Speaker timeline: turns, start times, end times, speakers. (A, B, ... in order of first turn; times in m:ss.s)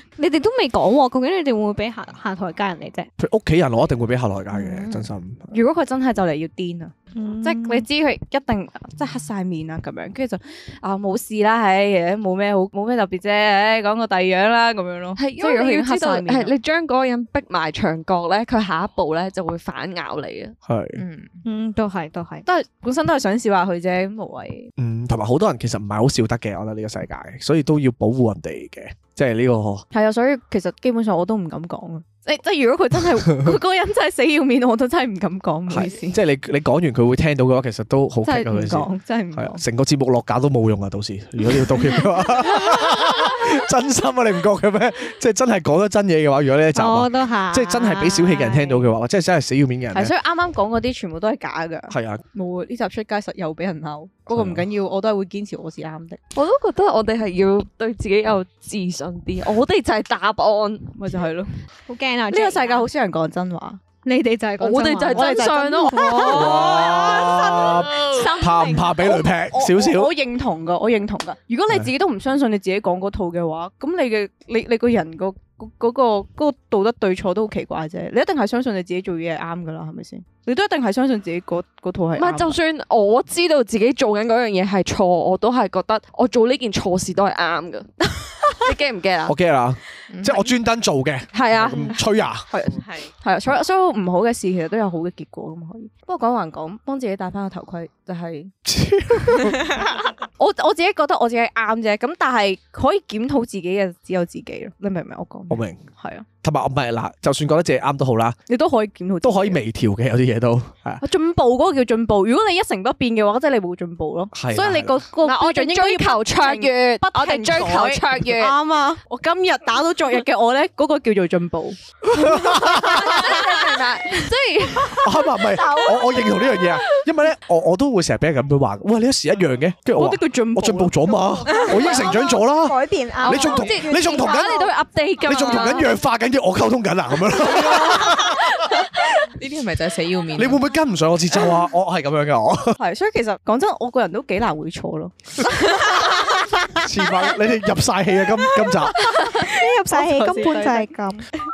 0:00.2-0:03.1 A
0:03.2-0:05.5 B
0:04.5-0:16.5 C
0:07.1-0:07.8 A
0:15.2-0:20.5 D
0:20.6-0:21.0 B
0:21.0-0:21.3 E
0:21.4-0:22.4 A
0:22.4-0:24.7 C
0:24.8-0:29.8 B
0:29.9-0:36.2 C
0:35.7-0:50.1 B
0:38.2-0:39.6 C
0:46.7-0:48.8 A
0:49.9-0:56.2 C
0:51.9-0:52.2 B
0:54.3-0:54.6 B
0:56.3-1:00.9 D
1:00.9-1:01.5 C
1:01.9-1:02.9 A
1:02.3-1:03.8 C
1:04.0-1:07.7 A
1:04.6-1:06.6 D
1:05.1-1:07.3 C
1:06.3-1:10.1 B
1:08.0-1:22.6 C
1:08.4-1:08.8 A
1:22.2-1:27.9 D
1:28.5-1:29.3 D
1:29.2-1:32.5 B
1:30.1-1:30.5 E
1:31.3-1:32.0 D
1:32.5-1:38.5 C
1:32.8-1:33.1 E
1:38.6-1:39.6 B
1:40.4-1:46.2 C
1:45.5-1:45.8 B
1:46.4-1:48.4 B
1:48.5-1:49.6 C
1:49.2-1:51.0 B
1:51.0-2:01.8 C
1:54.3-1:55.0 B
1:55.2-1:58.6 D
2:02.1-2:03.2 B
2:02.5-2:04.2 C
2:02.8-2:05.0 D
2:05.0-2:14.6 B
2:05.7-2:06.2 C
2:10.0-2:11.9 C
2:11.5-2:14.1 A
2:13.4-2:15.9 D
2:15.2-2:18.8 B
2:19.4-2:20.6 E
2:20.3-2:22.8 B
2:22.8-2:26.1 C
2:26.8-2:29.0 B
2:29.3-2:31.2 A
2:29.9-2:30.9 C